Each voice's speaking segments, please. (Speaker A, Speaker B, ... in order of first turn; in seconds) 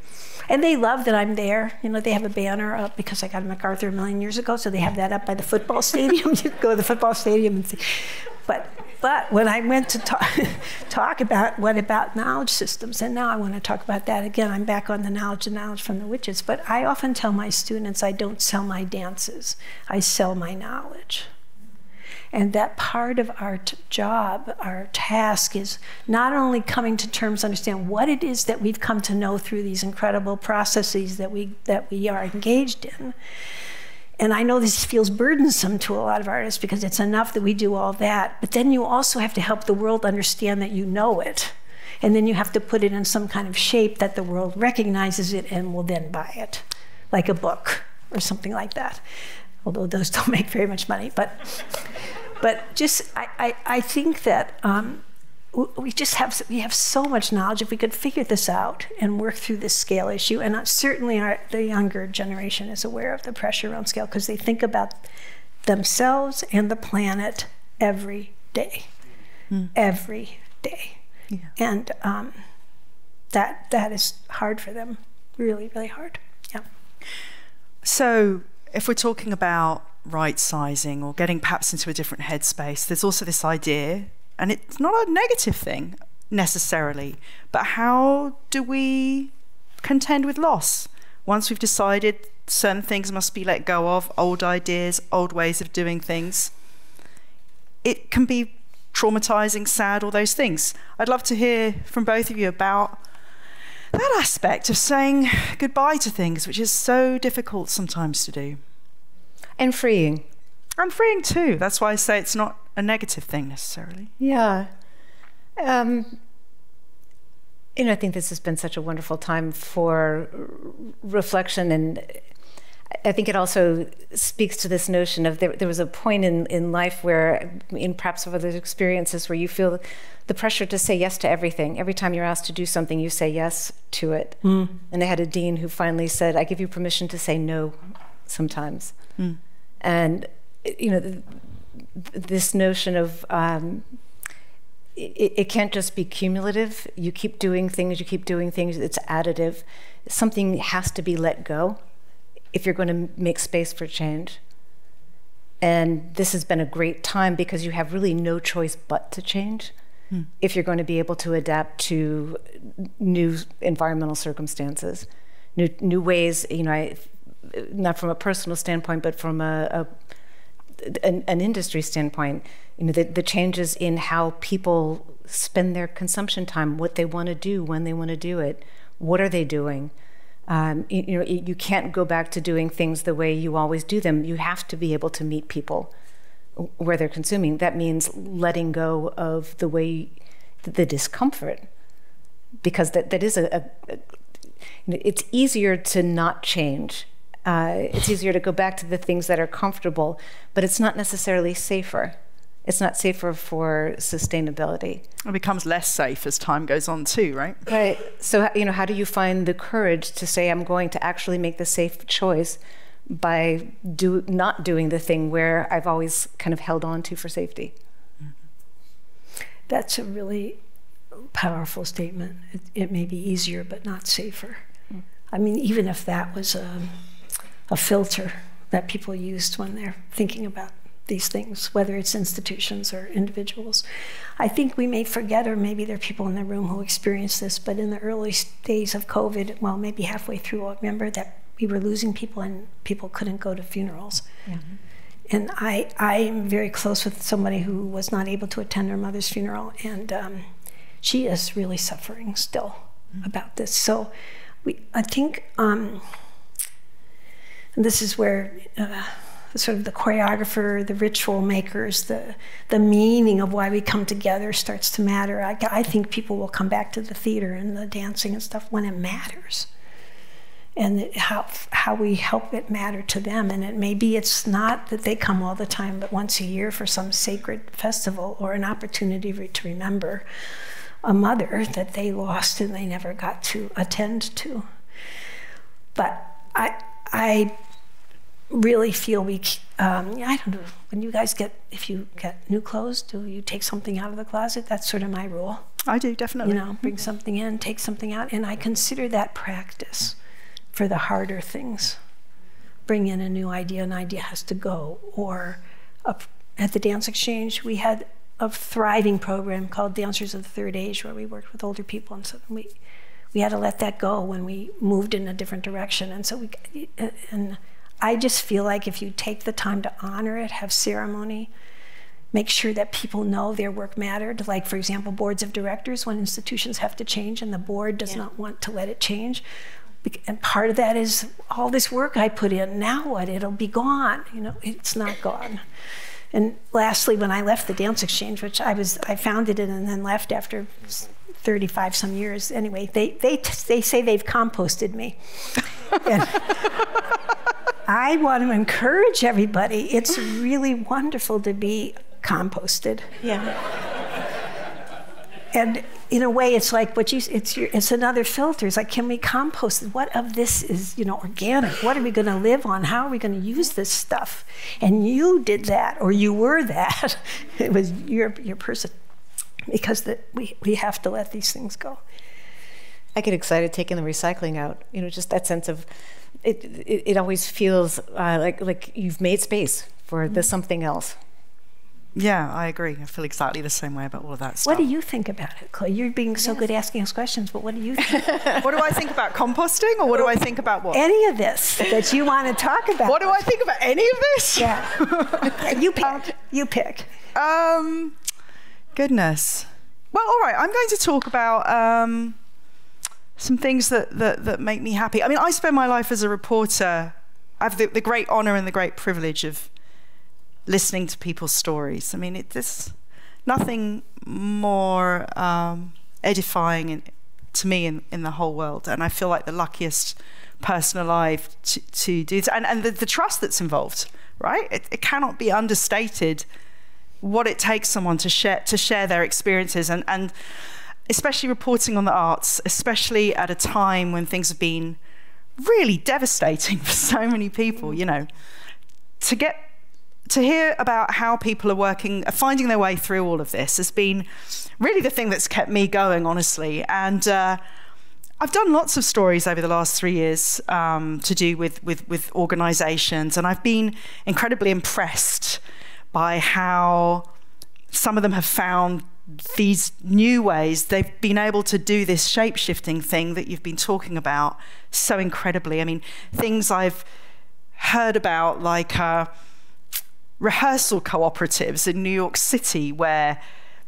Speaker A: 0.5-21.3, 22.3-33.1, 34.2-49.0, 49.6-51.9, 52.4-55.0, 55.5-65.1, 65.7-68.9, 69.7-71.0, 71.6-72.4, 73.3-76.6, 219.7-220.6, 221.3-224.6, 225.3-227.0, 227.7-233.8, 234.4-244.6, 245.3-250.5, 251.0-254.1, 254.6-256.1, 257.8-269.7, 270.8-280.3, 281.0-284.7, 286.0-287.6, 288.5-295.7, 296.4-300.2, 300.7-302.0, 302.9-312.7, 313.3-321.5, 322.3-329.4, 330.0-335.6, 336.3-346.6, 347.9-353.3, 355.5-368.9, 369.7-372.0, 384.6-388.6, 390.9-393.4, 394.6-397.1
Speaker B: 77.8-96.5, 97.8-103.0, 103.9-108.6, 110.8-114.1, 205.3-207.6, 295.9-296.6, 382.1-384.9, 388.6-391.0, 393.1-396.2, 397.4-398.2, 398.9-402.4, 403.4-409.7, 410.7-426.5, 427.2-430.3, 431.1-435.0, 435.6-438.3, 439.2-439.7, 440.3-444.3, 444.8-447.6, 448.4-455.6, 456.1-457.3, 457.9-467.1, 467.8-469.3, 470.4-473.4
Speaker C: 109.6-110.3, 114.2-114.7, 115.6-116.2, 117.8-122.2, 123.0-139.0, 139.8-143.9, 144.9-151.8, 152.5-154.4, 155.6-159.7, 160.4-169.9, 170.8-179.9, 180.5-185.9, 186.6-191.7, 192.6-194.0, 194.9-205.1, 207.7-217.7, 373.1-375.9, 376.4-381.2